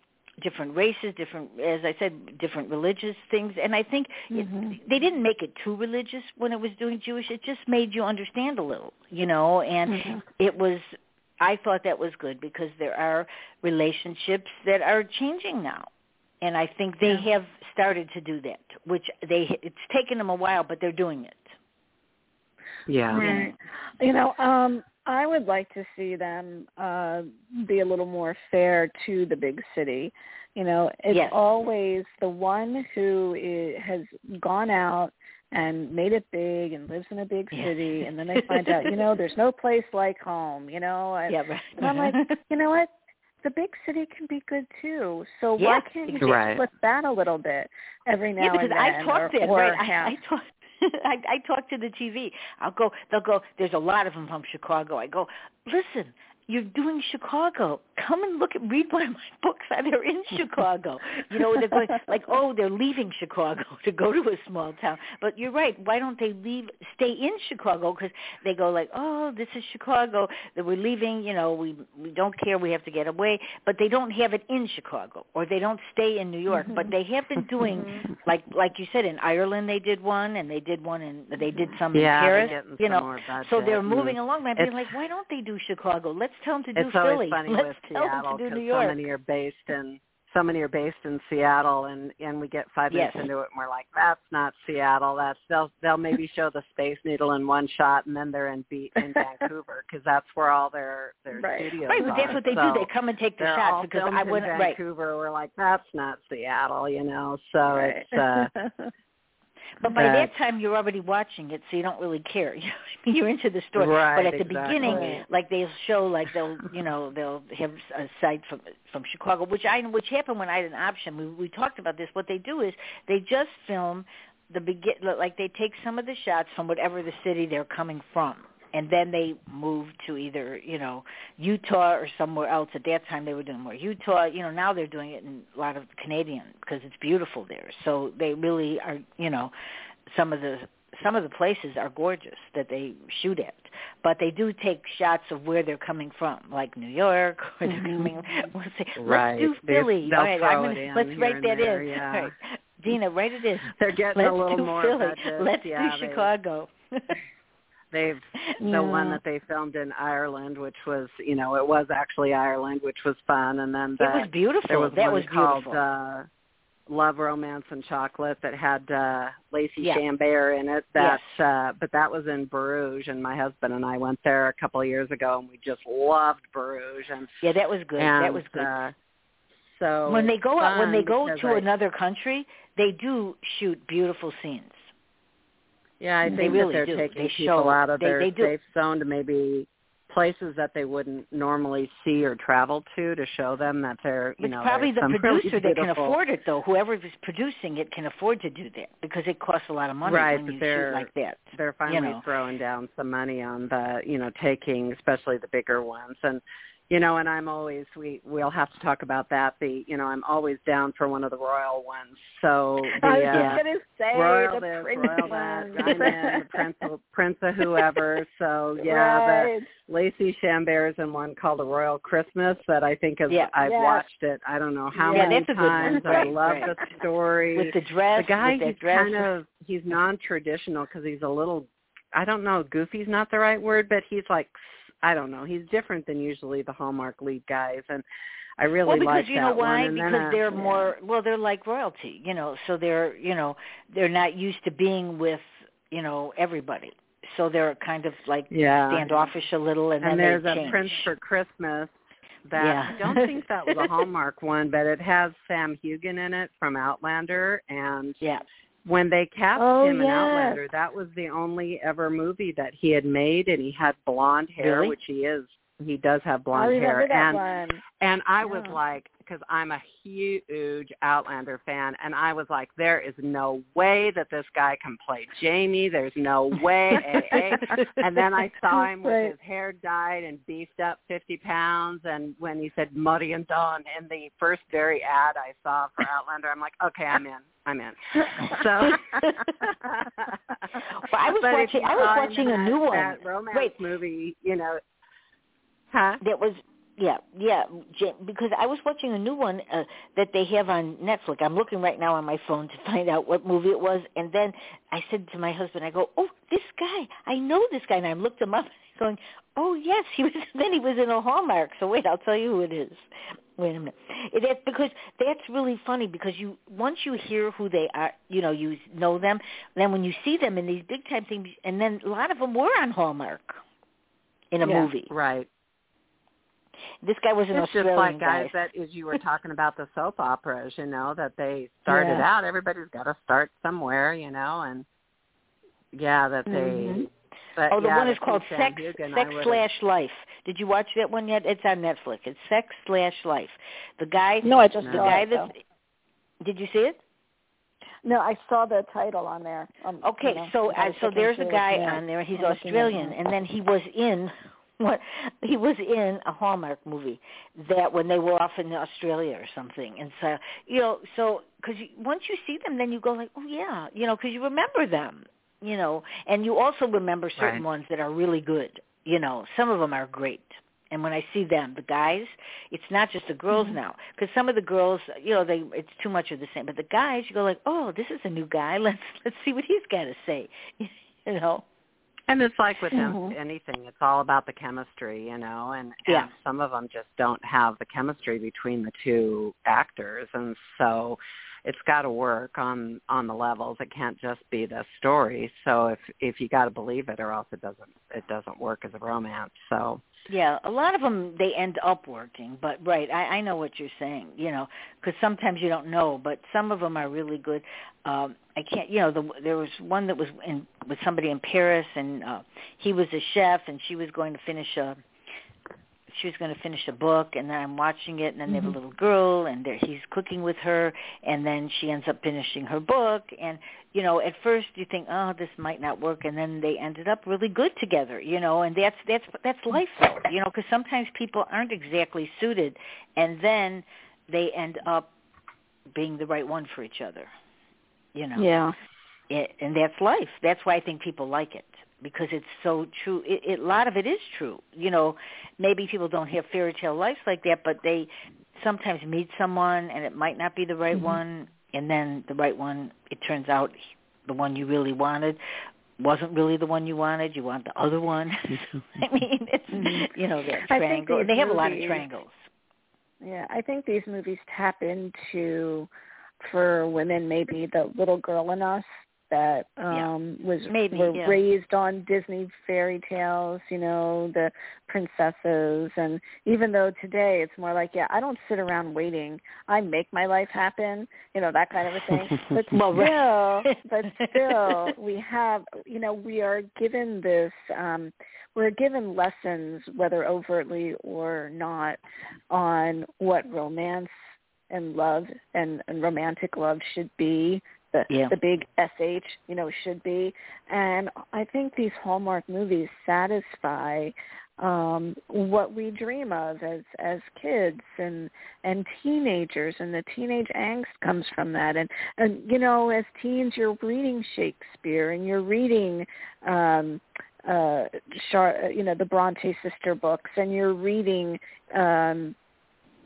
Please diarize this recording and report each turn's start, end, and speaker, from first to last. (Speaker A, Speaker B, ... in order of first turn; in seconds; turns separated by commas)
Speaker A: 0.4-15.9, Speaker B: 4.3-4.8, Speaker B: 9.9-10.2, Speaker A: 16.4-21.5, Speaker C: 22.9-23.2, Speaker B: 23.1-42.9, Speaker A: 23.1-23.5, Speaker A: 31.1-31.4, Speaker A: 38.3-39.0, Speaker A: 41.3-42.4, Speaker B: 43.4-50.2, Speaker A: 45.6-46.4, Speaker C: 46.2-46.6, Speaker A: 48.4-89.0, Speaker B: 77.7-78.0, Speaker C: 81.9-84.8, Speaker C: 86.8-108.5, Speaker A: 92.9-93.3, Speaker B: 101.3-102.4, Speaker A: 101.9-104.8, Speaker B: 107.6-108.9, Speaker A: 109.8-139.5, Speaker C: 110.0-110.3, Speaker C: 113.8-115.2, Speaker B: 114.8-115.2, Speaker A: 140.1-157.2, Speaker B: 147.7-148.2, Speaker C: 149.0-152.3, Speaker C: 153.7-156.3, Speaker C: 157.9-166.3, Speaker B: 158.6-159.2, Speaker A: 164.0-165.8, Speaker C: 166.9-177.3, Speaker A: 171.0-171.3, Speaker A: 177.4-178.7, Speaker C: 178.0-178.9, Speaker C: 179.8-181.6, Speaker A: 180.1-184.9, Speaker C: 186.0-196.2, Speaker B: 186.2-186.6, Speaker A: 186.3-188.5, Speaker A: 194.4-202.2, Speaker C: 200.0-213.6, Speaker B: 213.0-216.6, Speaker A: 213.3-213.6, Speaker C: 214.1-238.0, Speaker B: 218.8-219.7, Speaker A: 223.3-223.5, Speaker B: 223.6-224.1, Speaker B: 224.9-226.6, Speaker A: 225.1-226.7, Speaker A: 227.6-229.3, Speaker C: 238.6-240.9, Speaker A: 238.9-251.0, Speaker C: 248.5-249.2, Speaker C: 250.0-251.9, Speaker C: 252.5-258.2, Speaker A: 252.6-254.0, Speaker C: 258.9-267.4, Speaker B: 259.6-260.6, Speaker A: 264.6-264.9, Speaker B: 266.5-267.8, Speaker C: 268.0-290.5, Speaker B: 268.4-268.8, Speaker B: 279.0-279.3, Speaker A: 290.9-293.8, Speaker C: 291.3-294.8, Speaker C: 295.9-296.2, Speaker A: 296.2-313.0, Speaker A: 313.6-323.6, Speaker A: 324.5-325.1, Speaker B: 324.6-324.9, Speaker C: 325.1-325.5, Speaker A: 327.0-328.6, Speaker C: 327.5-334.9, Speaker B: 331.9-332.3, Speaker C: 335.9-337.0, Speaker B: 336.5-337.1, Speaker C: 337.6-339.6, Speaker A: 337.7-345.6, Speaker B: 344.4-345.5, Speaker C: 344.8-345.2, Speaker A: 346.4-347.0, Speaker B: 348.1-353.2, Speaker A: 350.0-381.6, Speaker C: 367.4-367.6, Speaker B: 373.5-373.8, Speaker C: 382.3-400.0, Speaker B: 382.9-383.3, Speaker A: 400.3-415.0, Speaker A: 416.1-435.1, Speaker B: 418.5-418.7, Speaker A: 435.9-437.3, Speaker A: 438.1-438.5, Speaker B: 438.4-438.7, Speaker A: 439.3-455.4, Speaker A: 456.0-462.4, Speaker B: 459.7-460.1, Speaker B: 460.6-462.1, Speaker B: 463.2-465.9, Speaker B: 466.4-492.0, Speaker A: 470.7-471.4, Speaker A: 482.7-484.9, Speaker B: 492.5-494.1, Speaker B: 494.7-522.4, Speaker A: 498.1-498.4